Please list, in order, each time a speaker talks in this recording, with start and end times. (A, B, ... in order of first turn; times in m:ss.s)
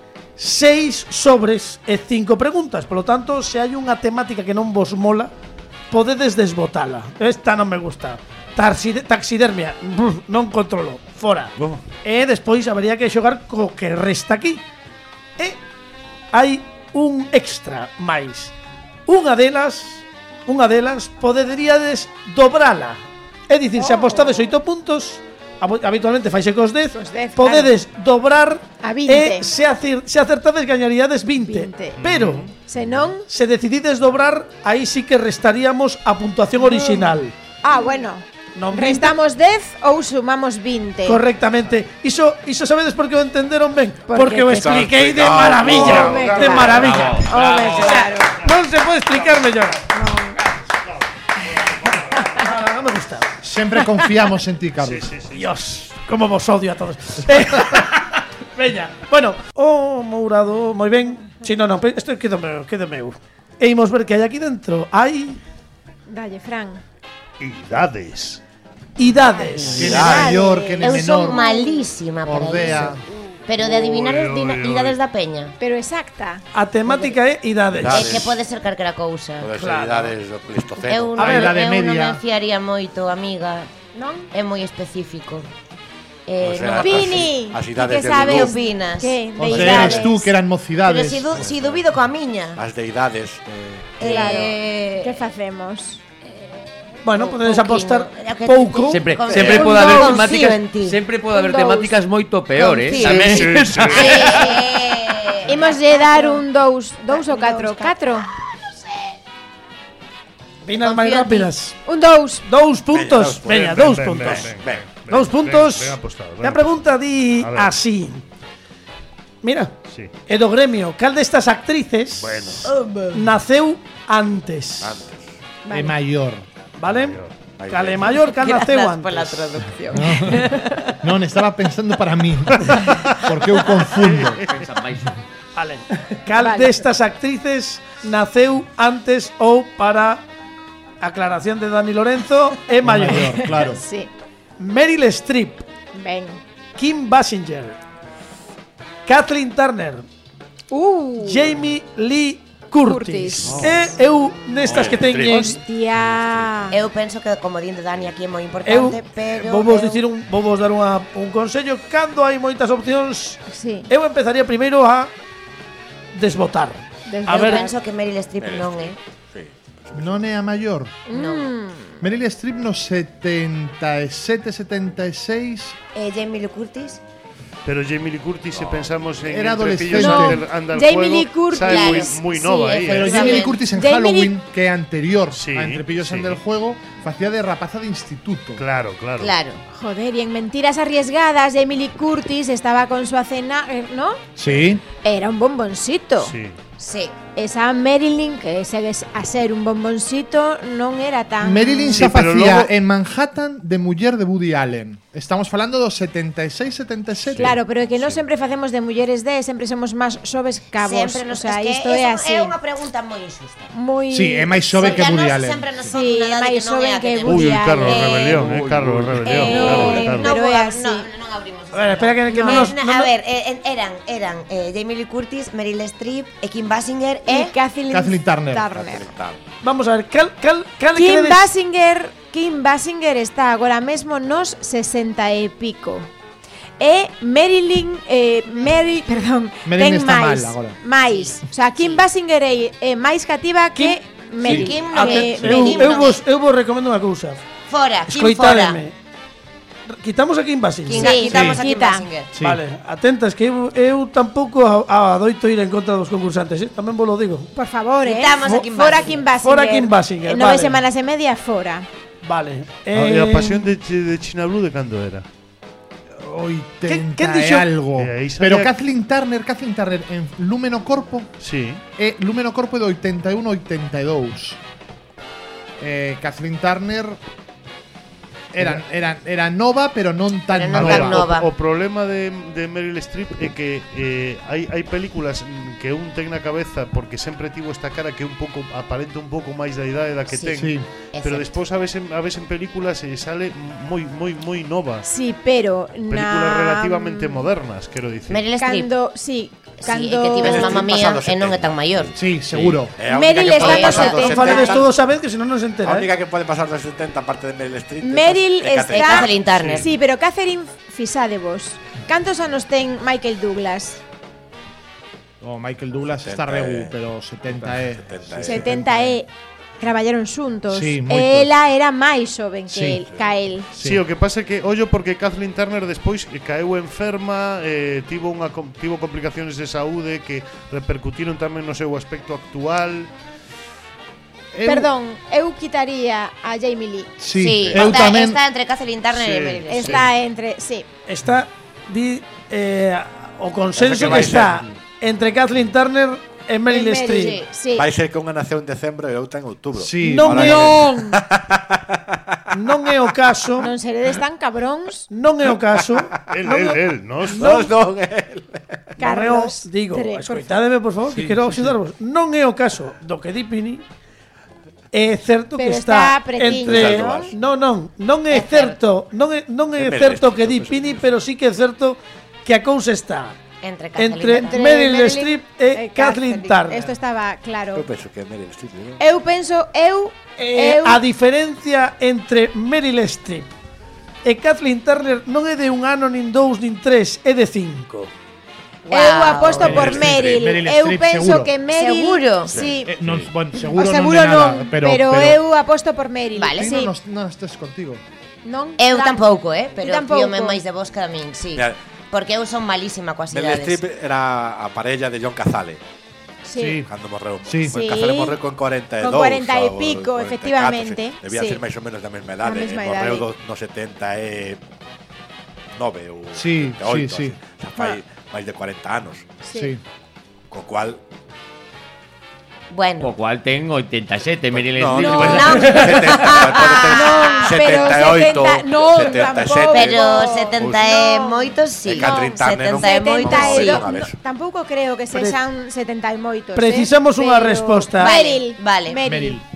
0:00.4-0:05.3 A
0:05.9-0:14.6 A
0:16.3-0:18.5 A
0:19.1-0:32.5 A
0:23.8-0:24.5 B
0:26.9-0:27.7 B
0:28.8-0:29.5 B
0:31.3-0:32.0 B
0:32.0-0:33.1 C
0:32.6-0:33.2 B
0:33.3-0:37.3 A
0:36.6-0:41.2 B
0:38.5-0:39.2 A
0:41.0-0:49.9 A
0:44.1-0:44.8 B
0:44.5-0:46.2 D
0:45.6-0:48.4 B
0:45.7-0:47.8 C
0:46.8-0:47.7 E
0:49.2-0:49.4 C
0:49.9-0:50.5 B
0:51.6-0:52.3 C
0:52.2-0:53.3 A
0:53.4-0:55.1 F
0:54.8-0:55.5 C
0:55.3-1:05.4 A
1:06.1-1:06.8 B
1:07.4-1:08.4 C
1:09.0-1:10.0 A
1:09.2-1:11.8 B
1:09.7-1:10.4 D
1:09.8-1:11.4 F
1:10.0-1:15.6 G
1:12.2-1:13.0 F
1:13.6-1:15.0 C
1:15.6-1:17.1 B
1:16.5-1:18.2 A
1:17.7-1:18.4 D
1:17.9-1:19.5 G
1:19.4-1:21.2 D
1:19.5-1:20.1 A
1:20.8-1:23.8 G
1:21.2-1:21.6 A
1:21.2-1:22.2 F
1:23.9-1:24.3 B
1:24.3-1:25.5 G
1:26.3-1:30.1 G
1:26.4-1:28.6 D
1:26.8-1:30.3 B
1:29.4-1:31.4 F
1:30.8-1:32.6 G
1:31.3-1:31.8 D
1:32.6-1:34.4 D
1:34.0-1:35.3 G
1:34.0-1:36.0 B
1:37.0-1:40.2 A
1:37.1-1:41.0 G
1:38.9-1:44.6 E
1:41.3-1:41.9 B
1:42.5-1:46.4 G
1:42.9-1:44.5 C
1:45.4-1:48.3 B
1:47.1-1:47.9 G
1:50.6-1:51.8 A
1:50.8-1:51.5 G
1:51.8-1:52.4 B
1:52.4-1:54.5 A
1:52.9-1:54.8 D
1:53.5-1:56.7 C
1:55.1-1:58.2 A
1:57.4-1:57.7 C
1:59.4-1:59.7 A
2:00.3-2:05.0 A
2:02.2-2:02.7 C
2:04.8-2:05.3 D
2:05.6-2:06.0 B
2:05.7-2:06.4 F
2:06.8-2:09.5 A
2:06.8-2:07.3 C
2:07.6-2:08.2 D
2:08.2-2:10.8 G
2:09.9-2:14.4 F
2:12.7-2:13.3 C
2:13.8-2:14.6 C
2:14.4-2:15.2 E
2:15.6-2:20.2 A
2:16.3-2:16.8 B
2:21.0-2:23.4 A
2:22.8-2:23.8 F
2:23.2-2:24.1 B
2:24.6-2:25.7 A
2:25.9-2:26.4 B
2:26.8-2:27.8 A
2:29.0-2:30.0 A
2:30.7-2:31.6 B
2:31.2-2:35.6 A
2:32.8-2:33.9 B
2:34.6-2:36.4 D
2:35.1-2:36.8 B
2:36.7-2:40.0 G
2:38.6-2:45.1 A
2:43.5-2:43.9 B
2:46.1-2:47.7 A
2:47.0-2:47.7 B
2:47.3-2:49.0 G
2:48.4-2:50.3 D
2:49.9-2:51.0 F
2:51.1-2:52.0 B
2:51.1-2:51.5 G
2:52.0-2:55.8 F
2:55.9-2:57.0 G
2:57.6-3:03.2 C
2:58.6-2:58.9 D
2:59.2-3:00.4 F
2:59.9-3:04.4 B
3:01.6-3:03.6 G
3:02.9-3:08.6 F
3:05.3-3:06.4 C
3:08.6-3:09.3 C
3:09.2-3:09.6 G
3:09.7-3:14.2 B
3:14.4-3:14.8 F
3:15.0-3:16.3 B
3:16.2-3:16.6 C
3:16.8-3:17.2 G
3:17.3-3:22.1 B
3:21.4-3:27.6 F
3:21.9-3:22.7 C
3:27.3-3:28.2 C
3:27.4-3:32.6 B
3:30.8-3:33.7 G
3:33.7-3:35.2 B
3:34.1-3:35.9 F
3:34.8-3:38.5 G
3:35.9-3:38.2 B
3:37.2-3:40.3 C
3:38.4-3:39.8 D
3:39.2-3:47.5 G
3:39.2-3:41.1 B
3:41.7-3:43.1 A
3:42.3-3:42.7 B
3:47.3-3:49.1 B
3:47.9-3:48.7 F
3:48.7-3:49.4 D
3:49.6-3:51.5 A
3:50.9-3:56.1 B
3:56.8-4:06.1 B
3:59.6-4:00.8 F
4:01.0-4:02.0 G
4:03.7-4:07.4 A
4:04.4-4:04.7 F
4:04.4-4:06.2 G
4:07.7-4:08.8 G
4:08.1-4:08.9 A
4:09.9-4:11.2 A
4:10.9-4:12.3 G
4:10.9-4:12.1 B
4:11.2-4:11.6 F
4:12.3-4:12.6 F
4:12.4-4:17.5 A
4:17.5-4:21.9 B
4:18.0-4:19.3 G
4:19.4-4:20.8 A
4:22.2-4:23.7 A
4:22.9-4:25.2 C
4:26.1-4:31.3 F
4:26.9-4:27.7 A
4:28.0-4:28.7 C
4:31.4-4:31.8 C
4:32.0-4:34.6 F
4:35.8-4:37.2 F
4:38.5-4:41.3 F
4:40.5-4:41.5 G
4:40.7-4:55.1 C
4:50.3-4:51.5 G
4:50.5-4:50.8 F
4:55.0-4:57.5 B
4:56.1-4:58.4 C
4:58.3-4:58.9 G
4:58.6-5:00.9 B
4:59.8-5:02.1 G
5:00.4-5:04.9 D
5:02.2-5:02.9 F
5:03.0-5:04.8 B
5:03.4-5:04.4 G
5:04.0-5:06.1 A
5:05.8-5:09.9 D
5:08.0-5:14.0 B
5:08.9-5:09.9 G
5:15.4-5:19.2 F
5:16.2-5:16.9 D
5:17.5-5:18.7 D
5:18.4-5:19.3 B
5:19.8-5:23.7 B
5:20.7-5:21.5 F
5:22.7-5:23.0 F
5:23.7-5:24.0 F
5:23.8-5:33.1 C
5:34.5-5:34.9 F
5:34.6-5:37.2 B
5:37.2-5:38.4 F
5:37.3-5:40.1 G
5:39.1-5:40.1 C
5:39.7-5:40.9 B
5:41.1-5:47.4 A
5:43.7-5:44.7 D
5:46.7-5:47.9 B
5:47.7-5:52.3 D
5:49.8-5:50.7 F
5:50.0-5:50.8 A
5:50.3-5:51.2 B
5:52.5-5:53.7 A
5:53.6-5:55.1 B
5:55.1-5:56.8 A
5:56.3-5:57.5 C
5:57.4-5:58.8 D
5:59.0-6:00.5 B
5:59.0-6:03.8 A
6:04.9-6:13.4 A
6:05.6-6:07.3 B
6:06.6-6:07.3 D
6:08.3-6:08.8 G
6:09.8-6:11.1 D
6:13.6-6:14.6 G
6:14.0-6:16.9 A
6:14.4-6:17.9 B
6:17.7-6:19.0 D
6:19.0-6:21.0 B
6:20.4-6:23.5 A
6:24.2-6:28.1 A
6:28.9-6:30.1 G
6:28.9-6:32.9 B
6:29.6-6:31.5 F
6:30.0-6:30.2 D
6:31.7-6:32.7 G
6:32.5-6:32.8 D
6:32.8-6:35.4 F
6:33.5-6:36.9 B
6:36.3-6:36.7 G
6:36.5-6:38.0 F
6:38.4-6:40.6 B
6:38.8-6:43.8 G
6:43.3-6:45.8 D
6:46.4-6:46.8 B
6:46.5-6:46.9 F
6:46.8-6:54.6 D
6:47.4-6:47.8 F
6:47.6-6:48.4 B
6:49.0-6:51.6 B
6:52.4-6:53.3 B
6:55.7-6:59.3 D
6:56.3-6:57.4 F
6:59.4-6:59.7 B
6:59.5-6:59.8 F
7:00.5-7:01.0 D
7:02.7-7:03.1 G
7:03.0-7:05.8 E
7:04.5-7:10.9 D
7:05.0-7:07.6 G
7:05.0-7:05.6 B
7:06.7-7:19.4 B
7:09.7-7:13.9 G
7:11.8-7:14.2 D
7:15.1-7:15.4 A
7:16.5-7:18.1 A
7:18.0-7:19.0 G
7:19.0-7:19.4 F